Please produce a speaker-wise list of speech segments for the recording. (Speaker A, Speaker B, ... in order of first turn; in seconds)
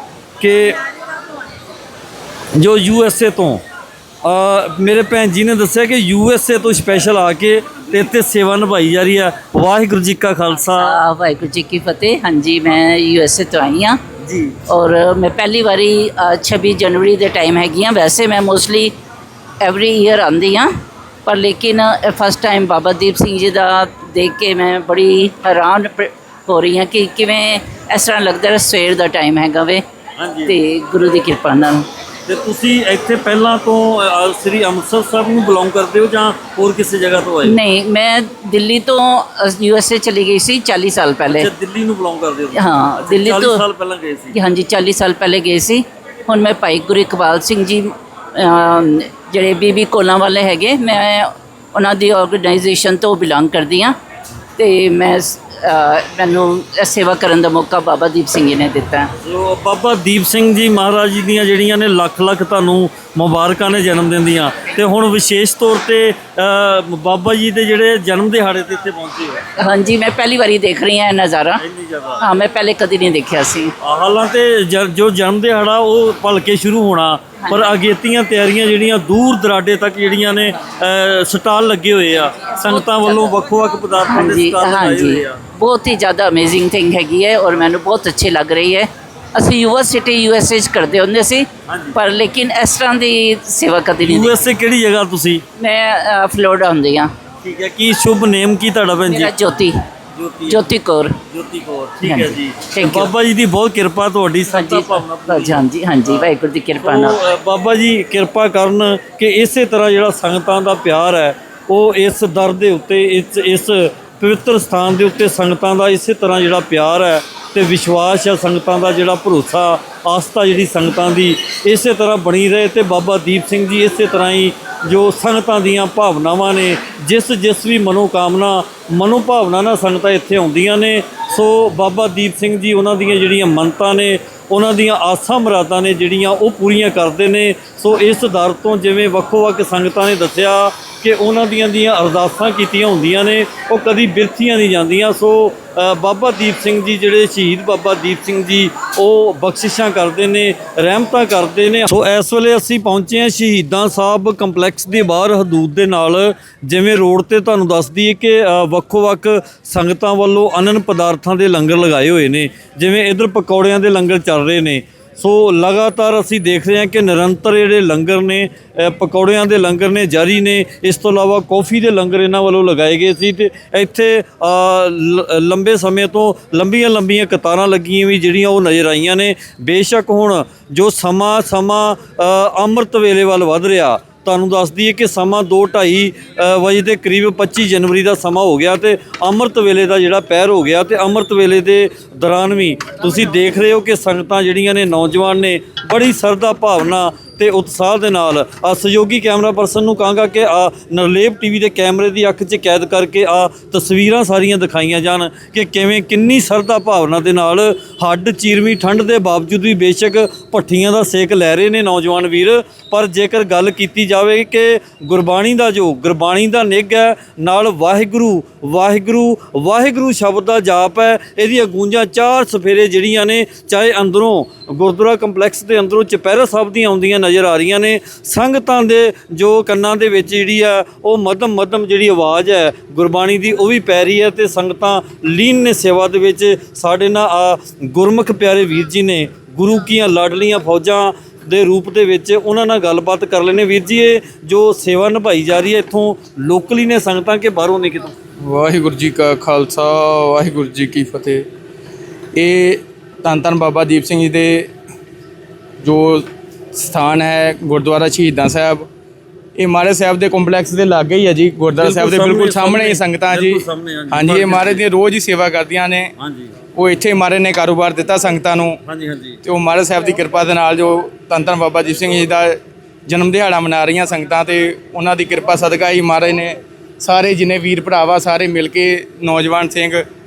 Speaker A: 0.4-0.8, 2.5-3.6, 4.2-11.0, 14.2-14.6, 30.2-30.6, 32.3-37.6, 41.3-44.4, 59.2-69.4, 71.6-72.2, 73.8-85.4, 91.7-92.0, 94.0-95.4, 97.4-99.5, 100.1-100.7, 101.3-248.1, 261.8-264.8, 266.2-266.5, 268.8-269.4
Speaker B: 10.6-14.0, 14.7-18.9, 19.6-20.7, 21.2-29.8, 30.5-31.8, 37.4-41.5, 42.5-43.6, 44.3-53.9, 54.6-59.1, 69.6-71.6, 72.2-73.7, 82.5-83.3, 84.0-94.3, 95.6-97.1, 99.1-99.8, 100.5-101.2, 102.0-103.1, 104.5-107.2
Speaker C: 248.4-251.4, 252.3-254.7, 255.8-258.9, 259.6-266.1, 266.8-268.8, 269.4-280.0